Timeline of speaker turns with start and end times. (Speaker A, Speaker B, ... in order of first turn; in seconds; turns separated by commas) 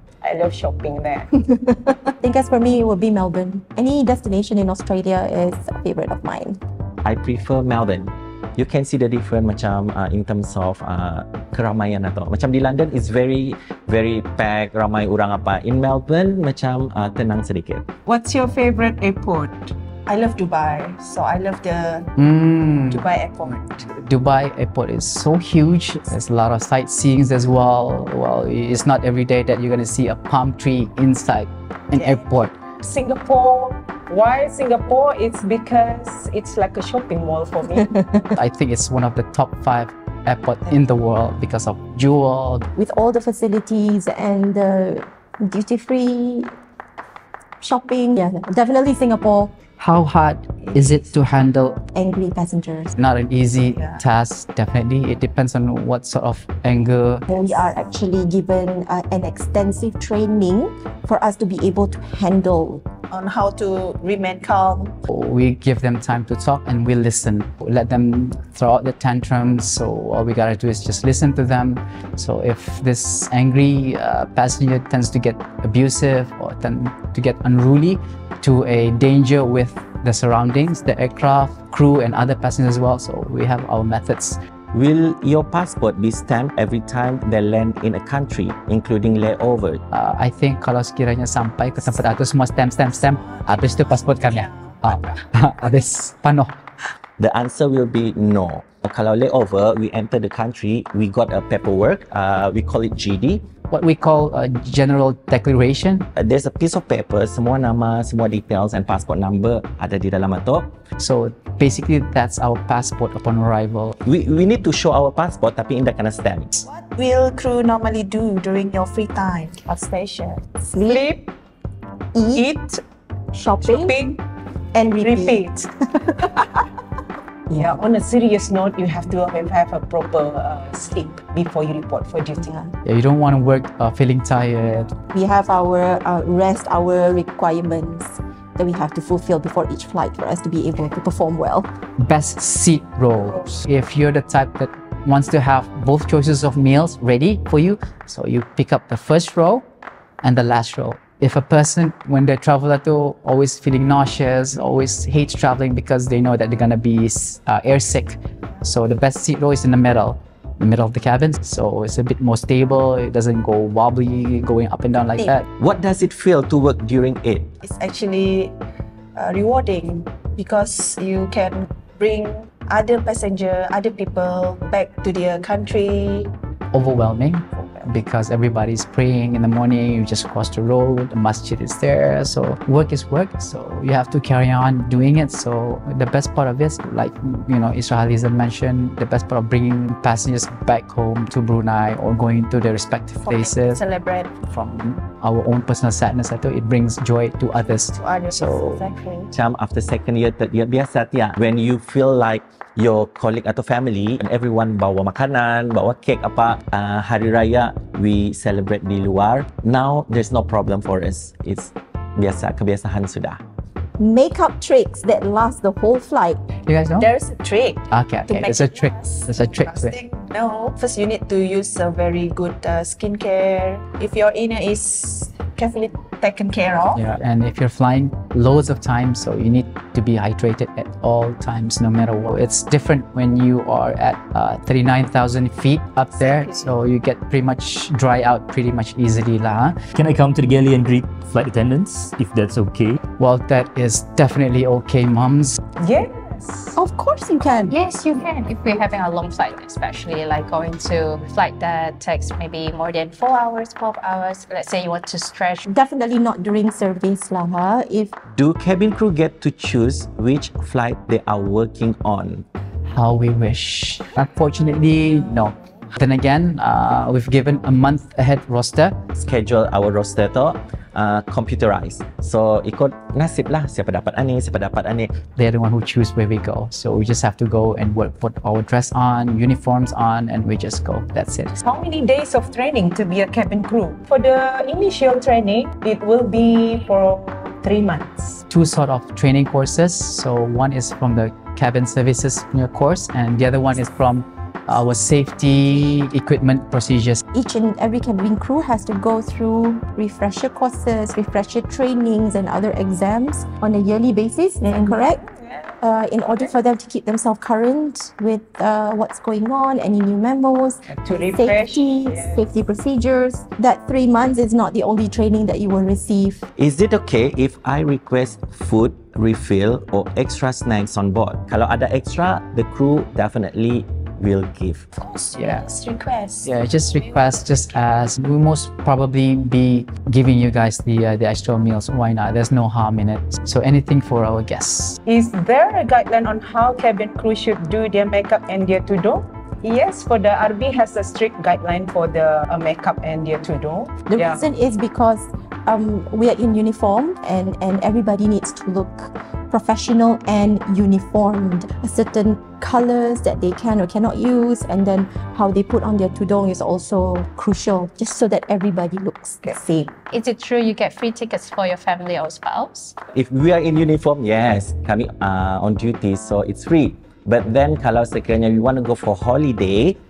Speaker A: 0.2-1.3, Speaker B: 2.2-6.6, Speaker C: 7.0-17.9, Speaker D: 18.1-22.1, Speaker E: 22.2-32.5, Speaker D: 22.9-23.8, Speaker A: 32.8-37.9, Speaker E: 38.4-42.7, Speaker B: 42.8-46.5, Speaker B: 47.6-49.6, Speaker E: 49.8-51.8, Speaker B: 51.9-52.9, Speaker E: 53.0-57.3, Speaker B: 57.3-62.9, Speaker D: 63.1-65.0, Speaker E: 65.1-84.4, Speaker C: 84.7-89.8, Speaker E: 89.9-96.6, Speaker C: 97.2-103.4, Speaker E: 103.7-106.1, Speaker C: 106.2-110.7, Speaker E: 111.0-114.0, Speaker C: 114.0-116.5, Speaker D: 116.6-120.6, Speaker B: 120.7-121.0, Speaker A: 120.8-121.3, Speaker B: 122.1-122.5, Speaker A: 122.4-122.8, Speaker B: 123.3-124.0, Speaker A: 123.6-124.2, Speaker B: 124.7-125.4, Speaker A: 125.0-125.7, Speaker A: 127.5-132.6, Speaker E: 132.8-134.9, Speaker B: 135.1-141.7, Speaker E: 142.0-149.7, Speaker E: 150.2-165.5, Speaker C: 165.6-167.6, Speaker D: 167.6-168.6, Speaker D: 169.2-176.3, Speaker E: 176.7-193.8, Speaker D: 177.6-177.8, Speaker D: 193.2-194.3, Speaker E: 194.4-198.8, Speaker D: 197.9-199.3, Speaker C: 199.3-213.4, Speaker B: 214.0-216.4, Speaker E: 216.7-217.1, Speaker D: 217.0-227.0, Speaker E: 217.9-219.9, Speaker E: 226.9-239.8, Speaker F: 239.9-243.0, Speaker E: 243.2-245.6, Speaker A: 245.8-246.8, Speaker B: 246.8-247.7, Speaker G: 247.7-255.7, Speaker B: 255.7-258.1, Speaker C: 258.3-262.4, Speaker E: 262.9-269.0, Speaker C: 269.2-275.1, Speaker E: 275.4-281.6, Speaker A: 281.6-288.4, Speaker E: 288.5-297.2, Speaker B: 297.3-305.2, Speaker B: 305.8-316.4, Speaker A: 310.9-312.3, Speaker C: 316.6-324.9, Speaker D: 325.0-326.5, Speaker E: 325.4-325.7, Speaker E: 326.4-335.0, Speaker A: 335.1-344.4, Speaker B: 344.1-359.9, Speaker G: 360.1-362.9, Speaker C: 363.1-370.0